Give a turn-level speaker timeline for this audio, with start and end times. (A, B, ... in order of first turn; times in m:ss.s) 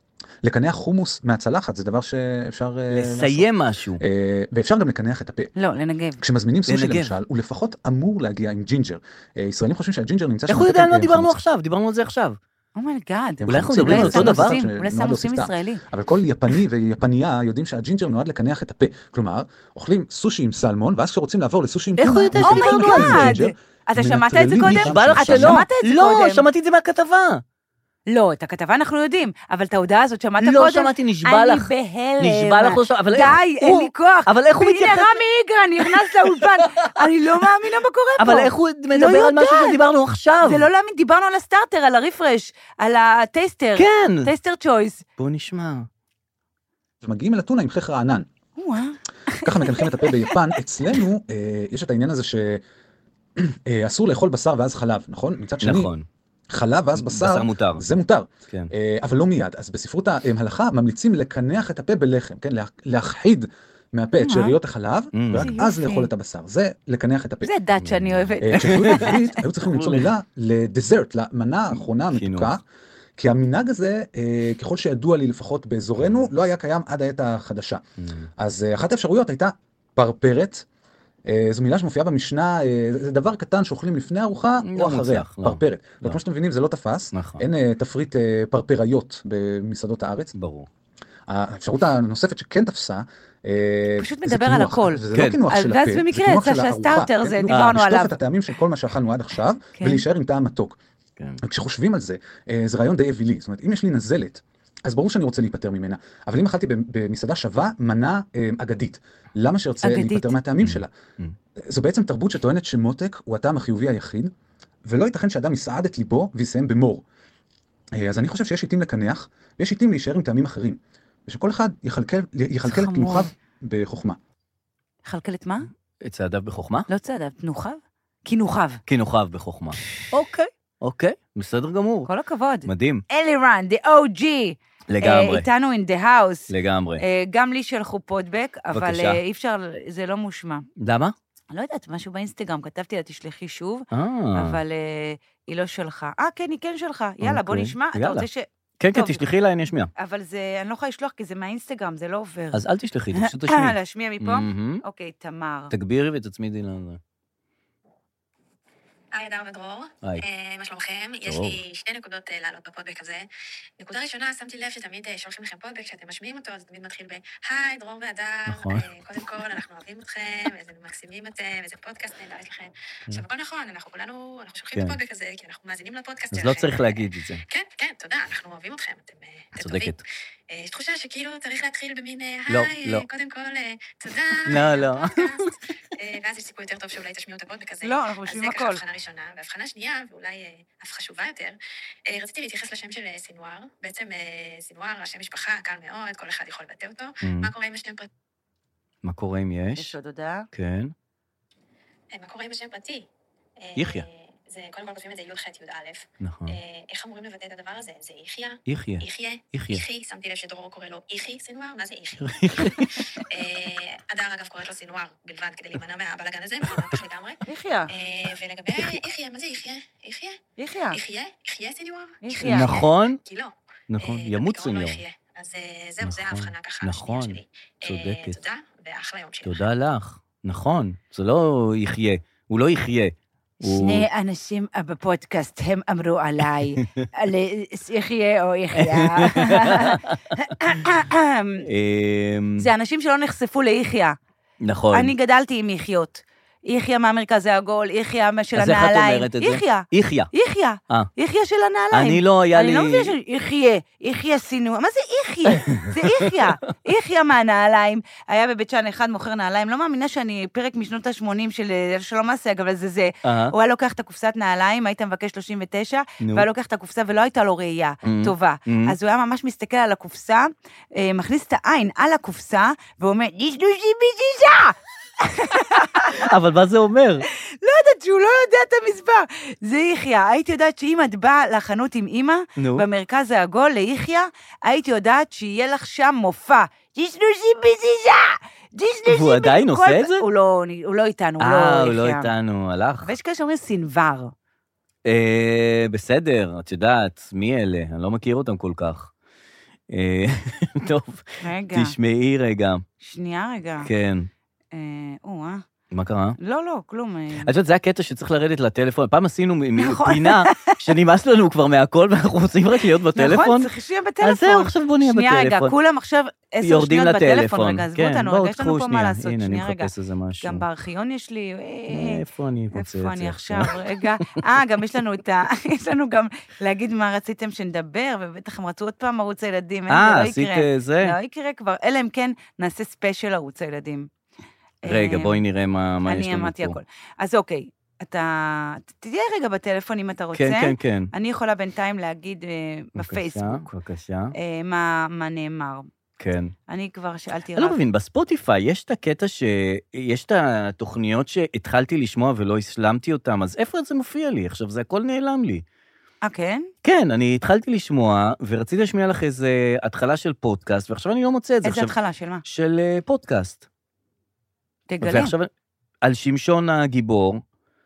0:00.4-0:03.5 A
0:02.9-0:04.0 B
0:04.0-0:05.5 A
0:05.5-0:06.2 C
0:06.2-0:11.4 A
0:06.6-0:07.2 B
0:10.5-0:12.4 B
0:12.8-0:15.8 C
0:13.4-0:25.6 A
0:13.5-0:14.6 B
0:22.0-0:23.4 B
0:22.4-0:26.4 C
0:24.6-0:27.4 B
0:28.1-0:39.8 C
0:30.4-0:35.2 B
0:35.8-0:36.9 B
0:38.2-0:40.7 B
0:40.4-0:45.0 C
0:43.8-0:44.3 B
0:45.2-0:45.9 B
0:47.0-0:48.3 A
0:48.6-0:50.5 C
0:49.4-0:52.6 A
0:53.4-0:55.9 A
0:55.6-0:56.0 B
0:56.5-1:07.5 A
0:56.9-0:57.8 B
1:04.2-1:04.5 C
1:05.1-1:05.5 B
1:05.4-1:06.1 C
1:07.4-1:09.4 C
1:07.8-1:10.1 B
1:08.4-1:12.6 A
1:12.1-1:12.5 B
1:13.2-1:17.8 A
1:16.0-1:16.3 B
1:18.0-1:18.3 B
1:18.4-1:20.6 A
1:21.3-1:30.3 A
1:24.6-1:26.2 B
1:27.1-1:27.4 B
1:30.3-1:30.7 B
1:31.3-1:40.8 A
1:34.0-1:38.1 C
1:35.1-1:35.4 B
1:37.5-1:37.9 B
1:39.8-1:40.0 C
1:41.4-1:50.9 A
1:49.8-1:50.4 C
1:50.6-1:51.3 B
1:51.6-1:54.3 A
1:54.8-1:57.0 A
1:57.9-2:04.2 A
2:02.6-2:03.3 C
2:05.0-2:05.7 C
2:06.0-2:06.9 B
2:06.9-2:08.8 C
2:08.9-2:12.1 B
2:12.1-2:20.7 C
2:12.6-2:13.0 B
2:14.9-2:15.5 B
2:16.5-2:17.0 B
2:18.7-2:19.2 B
2:20.8-2:21.1 B
2:21.5-2:29.2 C
2:23.9-2:24.6 B
2:27.2-2:28.3 B
2:28.8-2:29.9 B
2:30.0-2:32.6 C
2:32.5-2:34.8 B
2:33.1-2:35.7 C
2:35.7-2:37.0 B
2:39.1-2:43.2 D
2:41.2-2:41.6 B
2:43.8-3:11.5 D
2:48.5-2:48.9 B
2:56.3-2:57.4 B
2:59.6-3:00.0 B
3:02.5-3:03.0 B
3:04.4-3:05.5 B
3:07.8-3:08.8 C
3:12.1-3:18.1 D
3:17.2-3:17.5 B
3:19.0-3:19.9 B
3:19.8-3:20.5 C
3:20.5-3:20.9 B
3:22.1-3:23.1 D
3:23.6-3:40.4 D
3:23.8-3:24.0 B
3:26.2-3:26.6 B
3:28.7-3:29.8 B
3:32.2-3:33.0 B
3:37.4-3:37.9 C
3:40.6-3:41.0 C
3:40.9-3:49.7 D
3:42.2-3:42.8 C
3:42.4-3:43.2 B
3:43.9-3:45.0 B
3:46.0-3:48.4 B
3:49.4-3:54.1 B
3:53.7-4:01.6 C
3:58.7-4:00.4 B
4:01.7-4:02.7 B
4:02.6-4:04.2 C
4:04.6-4:05.1 B
4:04.9-4:36.2 C
4:08.5-4:10.3 B
4:11.9-4:13.1 B
4:15.5-4:16.5 B
4:23.2-4:23.5 B
4:26.2-4:26.5 B
4:28.0-4:29.0 B
4:36.1-4:37.2 B
4:37.6-4:52.3 C
4:42.6-4:42.8 B
4:49.1-4:50.3 B
4:51.4-4:53.1 B
4:53.0-4:54.3 C
4:55.0-4:59.1 B
4:59.9-5:02.8 B
5:01.4-5:01.9 C
5:03.0-5:03.9 C
5:03.8-5:04.3 B
5:04.7-5:05.6 C
5:05.9-5:06.4 B
5:06.4-5:07.5 C
5:07.4-5:13.7 B
5:09.8-5:10.8 C
5:13.2-5:19.9 C
5:14.2-5:15.7 B
5:16.6-5:20.6 B
5:20.4-5:34.1 C
5:21.9-5:23.7 B
5:29.9-5:31.1 B
5:34.8-5:35.4 C
5:34.8-5:36.8 B
5:36.0-5:43.7 C
5:40.3-5:41.1 B
5:43.0-5:44.3 B
5:44.3-5:45.9 C
5:46.2-5:46.5 B
5:46.7-5:47.8 C
5:47.5-5:55.6 B
5:56.2-5:56.7 C
5:56.8-6:03.6 B
6:01.6-6:02.4 C
6:04.9-6:05.3 C
6:05.0-6:05.5 B
6:06.0-6:07.4 B